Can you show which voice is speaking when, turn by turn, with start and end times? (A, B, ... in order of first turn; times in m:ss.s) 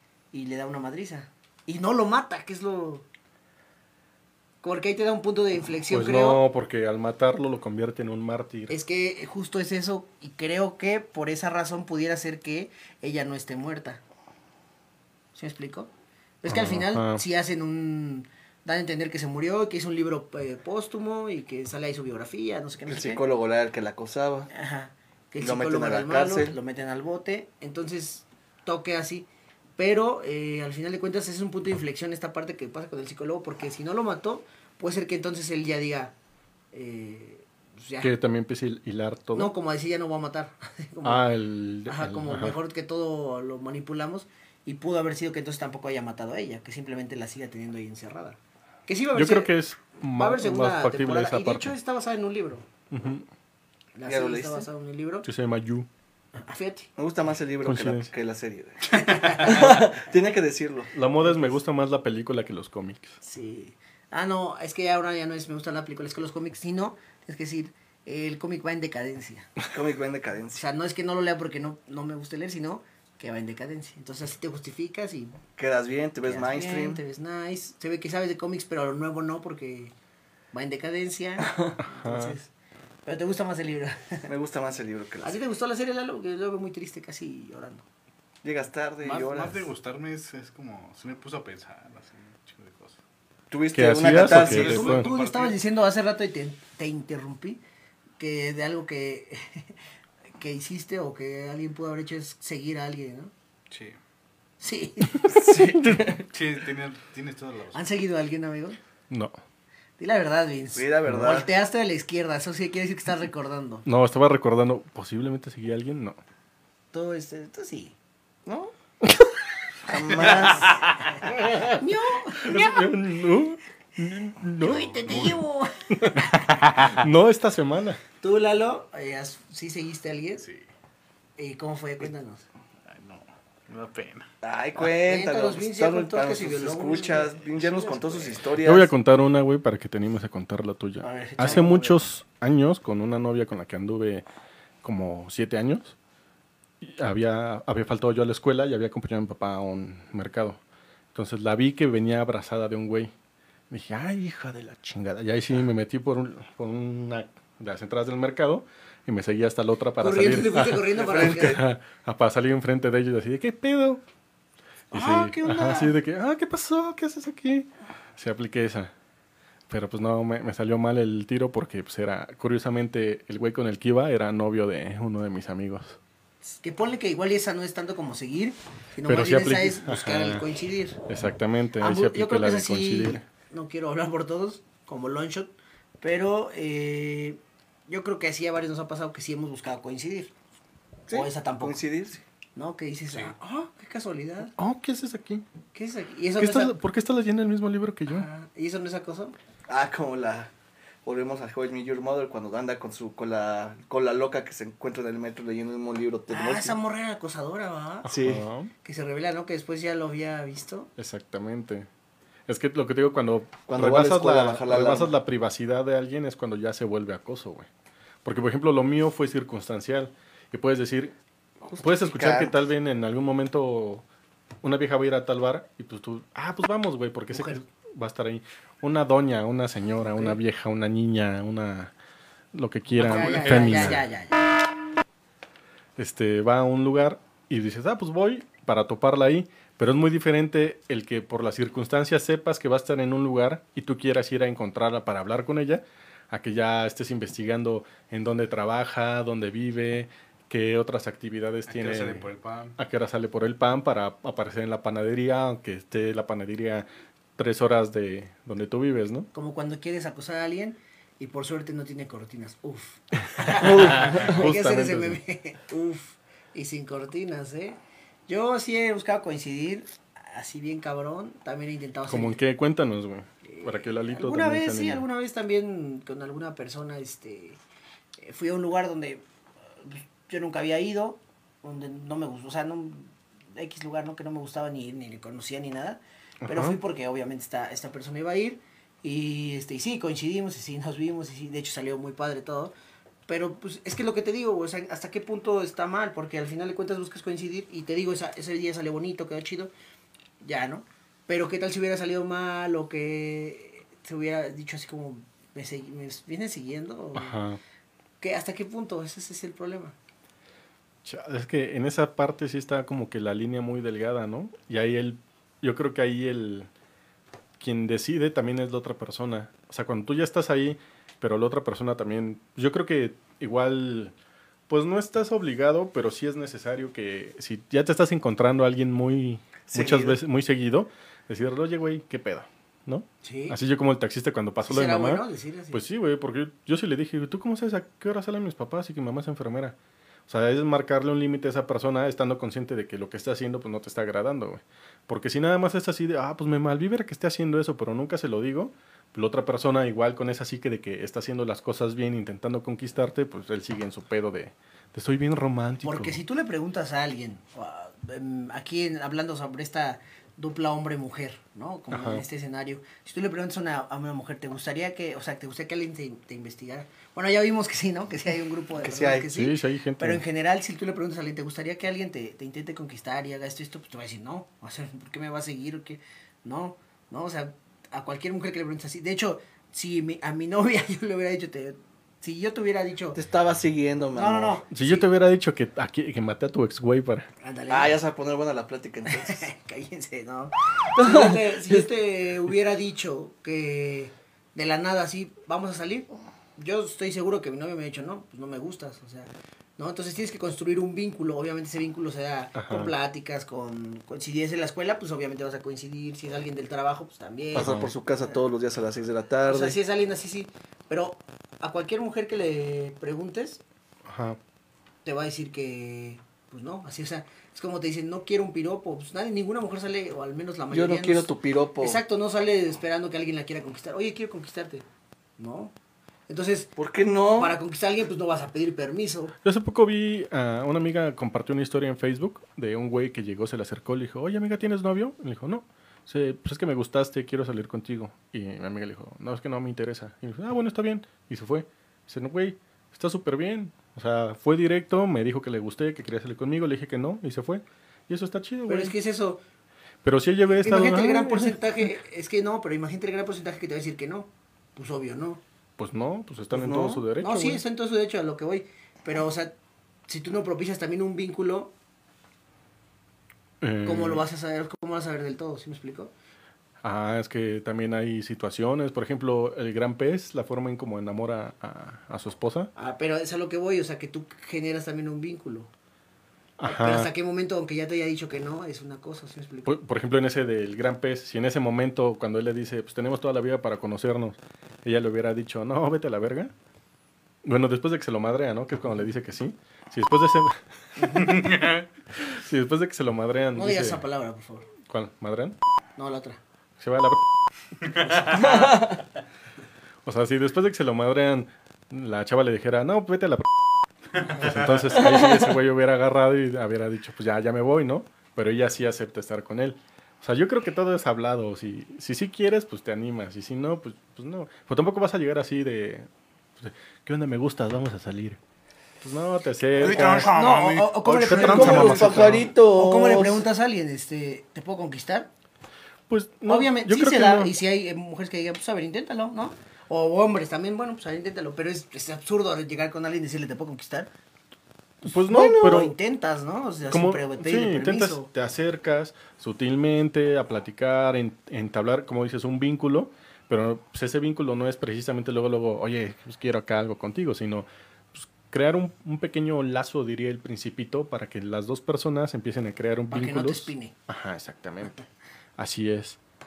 0:00.3-0:03.1 A
0:04.6-0:06.4 A
0:05.9-0:08.7 B
0:08.7-0:14.0 A
0:15.4-0:15.9 A
0:16.4-0:23.2 A
0:16.5-0:17.2 B
0:22.9-0:24.5 C
0:24.5-0:36.1 A
0:25.4-0:26.6 C
0:36.7-0:38.1 A
0:38.0-0:39.5 B
0:39.3-0:41.3 A
0:41.0-0:42.6 B
0:41.9-0:49.6 A
0:49.1-0:51.7 B
0:50.2-0:52.7 A
0:52.9-0:53.3 B
0:54.0-0:55.3 A
0:54.1-0:54.7 C
0:55.2-0:55.9 B
0:56.4-0:56.9 A
0:57.0-1:00.9 C
0:57.6-0:58.1 B
0:58.9-0:59.7 A
1:00.9-1:03.2 B
1:03.2-1:09.5 A
1:09.6-1:10.6 C
1:10.6-1:15.4 A
1:15.6-1:17.0 C
1:16.2-1:19.9 A
1:20.5-1:22.5 A
1:21.8-1:22.4 B
1:23.1-1:24.3 A
1:24.3-1:25.4 C
1:25.2-1:27.8 A
1:28.4-1:29.6 C
1:29.0-1:33.0 D
1:33.5-1:35.0 C
1:33.7-1:35.1 B
1:34.1-1:35.6 D
1:34.5-1:37.6 A
1:38.2-1:39.8 A
1:40.4-1:43.3 A
1:43.7-1:44.0 D
1:44.6-1:45.5 A
1:45.3-1:46.2 C
1:46.3-1:47.9 D
1:47.7-1:48.8 A
1:49.1-1:49.4 B
1:50.0-1:53.9 A
1:50.8-1:51.5 C
1:53.8-1:56.2 B
1:56.9-1:58.0 A
1:58.5-1:58.7 C
1:59.8-2:00.9 C
2:00.4-2:00.7 D
2:01.2-2:02.9 A
2:01.3-2:01.8 B
2:02.4-2:05.4 B
2:04.6-2:06.4 A
2:05.0-2:05.4 D
2:05.9-2:08.0 B
2:08.2-2:10.5 A
2:11.4-2:12.4 A
2:12.9-2:14.3 D
2:14.4-2:18.9 C
2:14.8-2:18.4 A
2:18.6-2:24.2 B
2:21.0-2:22.0 A
2:24.8-2:26.0 B
2:26.8-2:30.6 B
2:31.1-2:33.1 B
2:33.7-2:44.0 B
2:40.0-2:41.6 A
2:40.9-2:41.6 C
2:44.9-2:45.9 A
2:44.9-2:48.9 B
2:49.7-2:56.0 B
2:56.4-3:01.0 A
2:59.0-3:00.5 B
3:01.1-3:03.2 B
3:01.8-3:10.3 A
3:11.1-3:12.2 C
3:11.1-3:11.8 A
3:12.6-3:14.5 A
3:14.6-3:15.4 B
3:15.7-3:16.8 A
3:16.4-3:18.3 B
3:18.1-3:19.4 A
3:19.7-3:20.5 C
3:21.0-3:26.8 C
3:26.3-3:28.1 A
3:28.0-3:28.7 B
3:28.1-3:28.4 C
3:28.8-3:30.9 A
3:31.0-3:31.9 B
3:32.5-3:37.7 B
3:33.7-3:35.1 C
3:38.2-3:41.2 B
3:41.6-3:42.5 C
3:41.8-3:44.0 B
3:44.6-3:51.9 B
3:47.3-3:47.6 A
3:52.5-3:54.1 B
3:52.9-3:54.5 A
3:53.1-3:53.7 D
3:56.0-4:19.3 B
4:11.7-4:12.8 D
4:19.3-4:32.4 A
4:23.6-4:24.4 C
4:23.8-4:25.2 B
4:32.1-4:35.0 B
4:33.4-4:37.6 A
4:38.2-4:39.2 A
4:39.8-4:52.7 A
4:46.4-4:46.8 B
4:53.3-4:59.7 A
5:00.4-5:07.4 A
5:07.2-5:07.6 B
5:08.2-5:10.0 A
5:11.0-5:16.7 B
5:17.6-5:24.1 B
5:24.7-5:39.8 B
5:29.7-5:30.2 C
5:33.2-5:33.6 A
5:34.6-5:35.8 A
5:40.3-5:56.2 B
5:55.8-6:23.2 A
6:01.9-6:02.2 B
6:08.8-6:09.3 C
6:09.3-6:10.2 B
6:23.2-6:24.6 C
6:24.2-6:25.1 A
6:24.7-6:27.3 B
6:27.4-6:28.0 A
6:27.7-6:29.5 C
6:29.1-6:47.9 A
6:31.0-6:31.9 C
6:42.6-6:42.9 B
6:47.6-6:47.9 B
6:47.6-6:49.8 C
6:49.4-6:53.6 A
6:54.1-6:54.4 B
6:55.0-7:04.8 A
7:00.7-7:02.0 C
7:05.4-7:05.7 A
7:06.3-7:06.7 A
7:06.8-7:07.6 C
7:07.4-7:09.3 A
7:09.4-7:29.0 B
7:28.7-7:29.4 A
7:30.0-7:31.8 B
7:30.5-7:35.4 A
7:35.8-7:37.6 B
7:36.5-7:37.0 C
7:37.2-7:39.6 A
7:40.1-7:41.7 A
7:43.6-7:44.2 B
7:43.8-7:46.1 A
7:46.8-7:52.7 B
7:52.8-7:55.7 A
7:56.6-7:57.1 B
7:56.6-7:59.7 A
7:59.6-8:06.5 B
8:07.4-8:11.6 B
8:11.0-8:11.5 A
8:11.3-8:11.8 D
8:12.1-8:14.0 B
8:13.6-8:14.7 A
8:14.9-8:15.6 B
8:16.0-8:16.4 A
8:16.8-8:17.2 B
8:17.8-8:18.3 D
8:18.3-8:18.9 C
8:20.0-8:23.6 B
8:24.2-8:38.4 B
8:39.0-8:40.4 B
8:39.8-8:42.4 D
8:39.8-8:45.3 A
8:41.3-8:42.5 B
8:41.4-8:43.4 C
8:46.1-8:47.5 B
8:46.5-8:54.1 A
8:55.0-8:56.0 B
8:55.1-8:58.3 A
8:56.9-9:15.0 B
9:13.1-9:13.9 A
9:15.6-9:16.2 B